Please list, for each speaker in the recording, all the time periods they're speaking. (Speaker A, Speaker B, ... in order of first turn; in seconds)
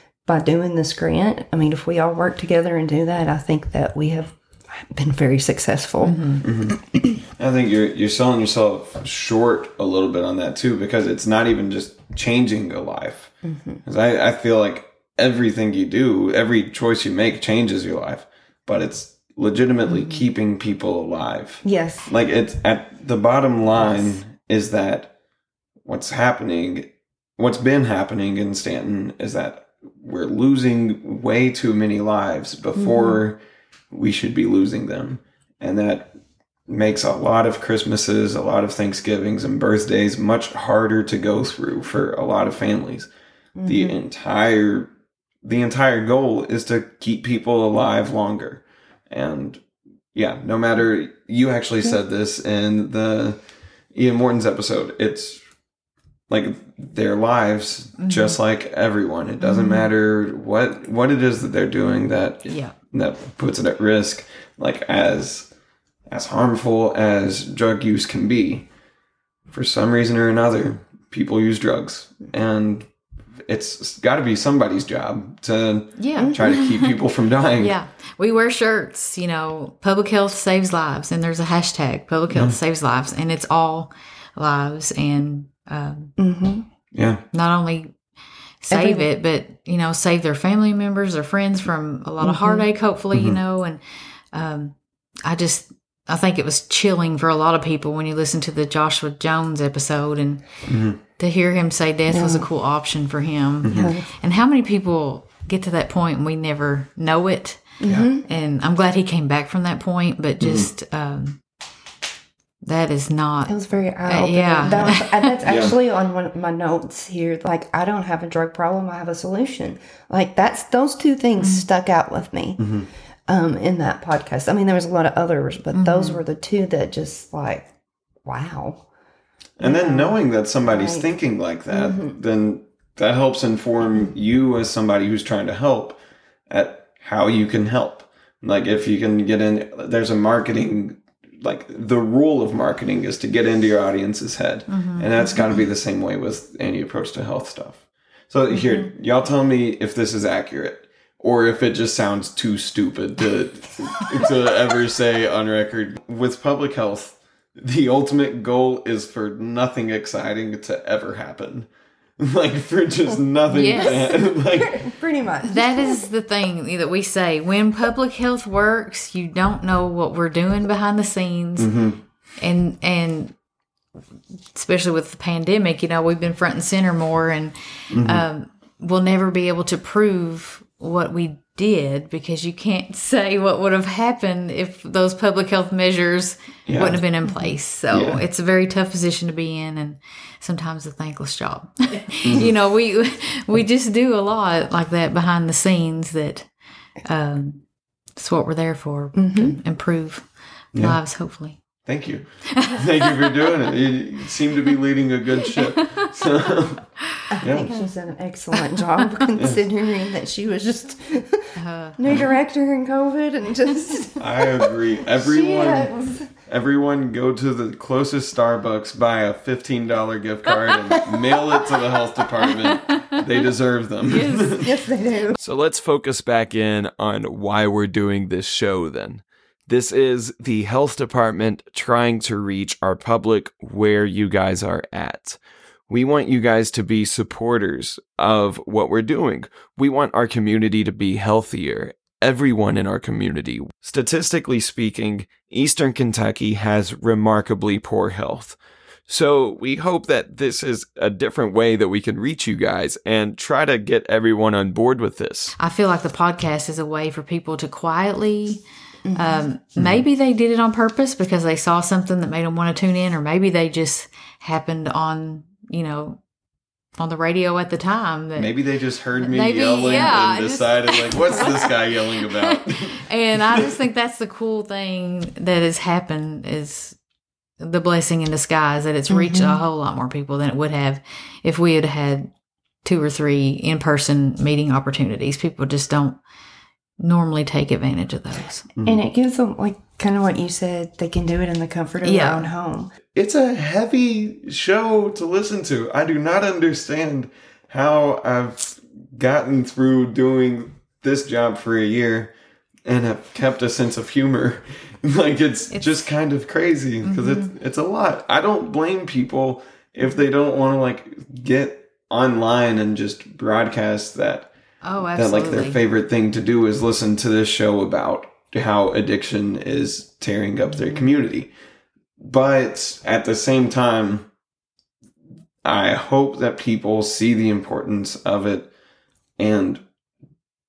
Speaker A: 0.3-7.2, 13.4-13.8, 21.6-22.1, 32.8-33.2, 43.6-44.0, 59.4-59.8, 76.2-76.5, 86.2-86.7, 88.7-89.1, 92.2-92.7, 102.1-102.5, 103.7-104.1, 107.8-108.3, 113.5-122.6, 123.3-127.7, 128.2-128.8, 129.6-131.1, 131.7-132.2, 163.8-166.1, 187.2-187.6, 199.2-199.6, 207.3-216.3, 221.1-221.4, 224.6-225.4, 259.1-259.5, 279.1-279.6, 288.8-292.9
Speaker B: 6.0-6.4, 19.9-20.2, 58.0-58.4, 62.5-62.7, 76.0-77.0, 77.6-86.1, 87.3-87.9, 88.6-93.8, 94.3-100.5, 101.0-111.4, 112.6-115.3, 121.4-121.7, 125.7-126.2, 144.7-145.1, 163.5-164.1, 165.4-171.7, 172.4-173.3, 174.5-196.5, 197.1-197.6, 198.2-201.6, 202.5-203.5, 205.7-206.1, 208.7-209.2, 211.6-212.0, 224.1-224.7, 255.6-258.6, 259.1-266.2, 267.0-268.6, 269.2-277.0, 277.6-282.3, 282.8-286.2, 287.0-288.7, 292.0-292.5, 305.7-306.1, 307.0-307.5, 314.8-315.8
Speaker C: 6.4-6.8, 7.4-13.3, 13.8-25.1, 25.9-33.4, 33.9-36.1, 36.7-43.1, 43.6-44.9, 45.4-49.6, 50.1-53.4, 53.9-55.4, 56.3-65.5, 66.1-68.7, 69.5-72.9, 73.5-77.8, 82.3-82.6, 86.9-87.2, 93.1-93.4, 100.7-101.0, 103.6-103.9, 110.4-110.7, 115.5-115.7, 122.6-122.9, 129.6-161.7, 162.2-164.9, 171.6-172.0, 177.9-178.2, 186.7-187.0, 187.9-188.2, 201.8-206.9, 207.4-207.7, 214.2-215.9, 216.4-224.7, 225.4-255.6, 259.8-260.0, 268.4-273.7, 288.8-289.0, 293.1-302.3, 302.9-314.5, 315.1-321.5, 322.2-324.3, 325.6-328.7, 329.4-329.8